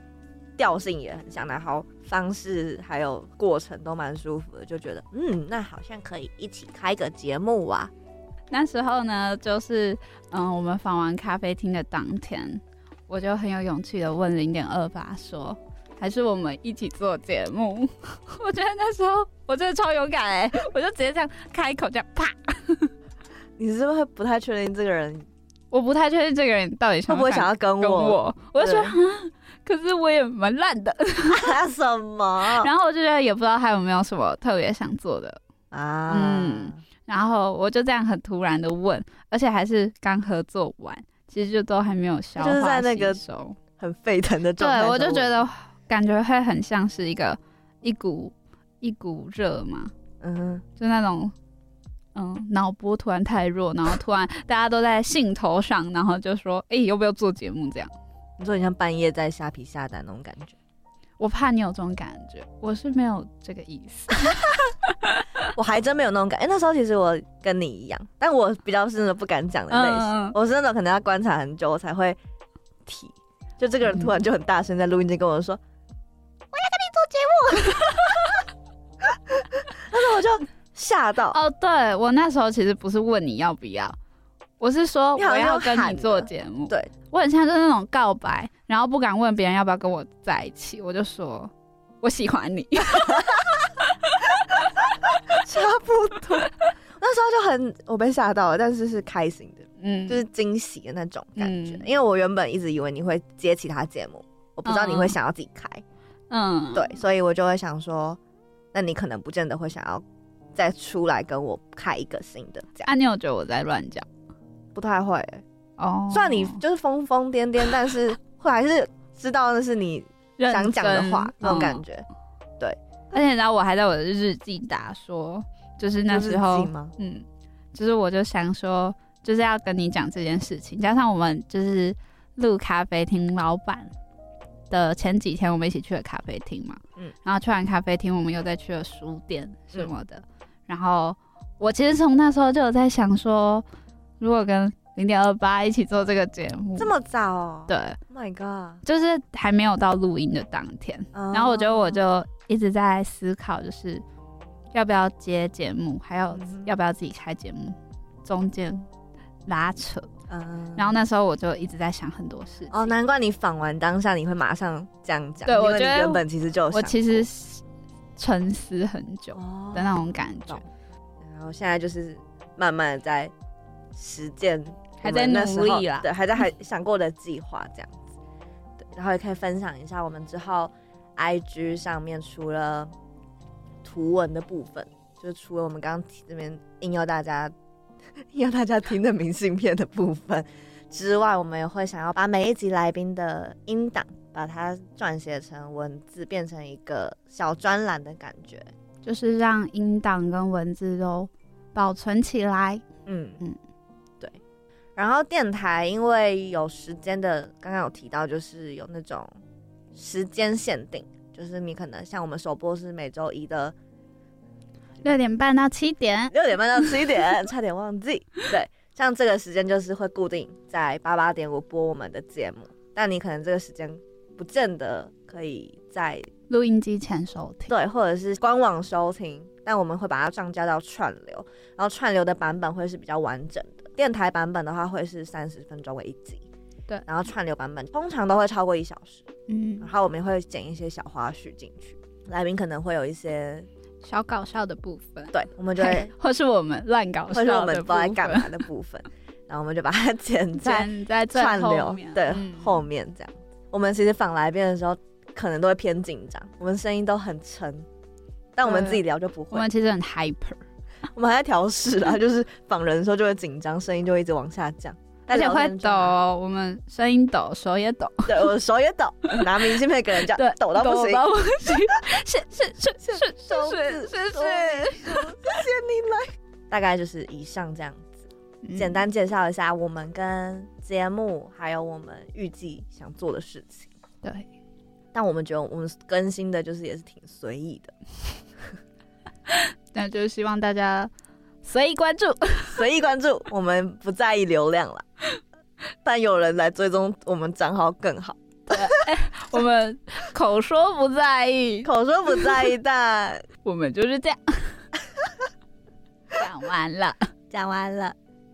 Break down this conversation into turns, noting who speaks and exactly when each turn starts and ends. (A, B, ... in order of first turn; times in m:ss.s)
0:00.6-0:07.9 A
0:08.5-0:22.9 B
0:23.6-0:25.3 A
0:25.7-0:31.6 B
0:27.1-0:29.0 A
0:31.3-0:32.7 A
0:32.4-0:35.4 B
0:35.7-0:36.8 A
0:36.1-0:43.6 B
0:42.4-0:43.2 A
0:43.8-0:45.5 A
0:44.6-0:49.9 B
0:50.2-0:50.6 A
0:50.8-0:51.3 B
0:52.1-0:57.9 B
0:58.4-1:00.6 A
1:01.2-1:05.2 B
1:05.5-1:12.2 A
1:09.7-1:10.4 B
1:12.8-1:15.6 A
1:16.5-1:18.3 A
1:19.8-1:21.4 A
1:21.3-1:24.0 B
1:24.6-1:34.4 B
1:25.2-1:26.9 A
1:35.3-1:45.8 A
1:39.8-1:40.2 B
1:41.4-1:41.9 B
1:44.6-1:45.2 B
1:46.3-1:46.9 B
1:46.7-1:48.2 A
1:48.7-1:50.0 A
1:50.6-1:52.9 A
1:52.8-1:54.1 B
1:54.7-1:55.4 A
1:55.8-1:56.6 B
1:56.1-2:02.0 A
2:00.4-2:01.8 B
2:03.1-2:13.9 B
2:06.1-2:06.9 A
2:14.7-2:23.6 B
2:24.2-2:26.9 B
2:26.8-2:28.8 A
2:27.7-2:28.0 B
2:28.8-2:34.0 B
2:31.1-2:32.0 A
2:34.7-2:38.9 B
2:36.3-2:36.7 A
2:39.5-2:40.1 B
2:40.3-2:40.9 A
2:40.8-2:43.0 B
2:42.7-2:47.3 A
2:45.4-2:47.6 B
2:48.2-2:50.6 B
2:49.3-2:50.6 A
2:51.2-2:53.3 A
2:53.9-2:58.1 A
2:55.0-2:56.1 B
2:58.8-3:02.9 A
3:03.8-3:07.5 A
3:08.3-3:18.7 A
3:19.0-3:22.8 B
3:23.0-3:23.4 A
3:25.0-3:29.3 A
3:29.9-3:33.7 A
3:35.0-3:36.3 B
3:36.3-3:46.3 A
3:46.5-3:47.7 B
3:47.7-3:56.4 A
3:57.0-3:59.3 A
3:59.5-3:59.9 B
3:59.8-4:03.7 A
4:04.0-4:08.6 B
4:05.3-4:06.1 A
4:07.3-4:17.9 A
4:10.5-4:12.8 B
4:18.6-4:19.6 A
4:18.6-4:20.6 B
4:21.1-4:26.2 A
4:25.3-4:28.5 B
4:28.3-4:31.3 A
4:30.3-4:35.4 B
4:33.0-4:43.9 A
4:38.6-4:39.0 B
4:44.2-4:44.5 B
4:45.1-4:47.9 A
4:49.5-4:51.1 B
4:51.6-4:52.8 B
4:52.7-4:55.0 A
4:56.0-4:58.8 A
4:58.7-5:02.7 B
5:01.8-5:03.5 A
5:03.6-5:04.9 B
5:06.3-5:07.3 B
5:07.5-5:08.2 A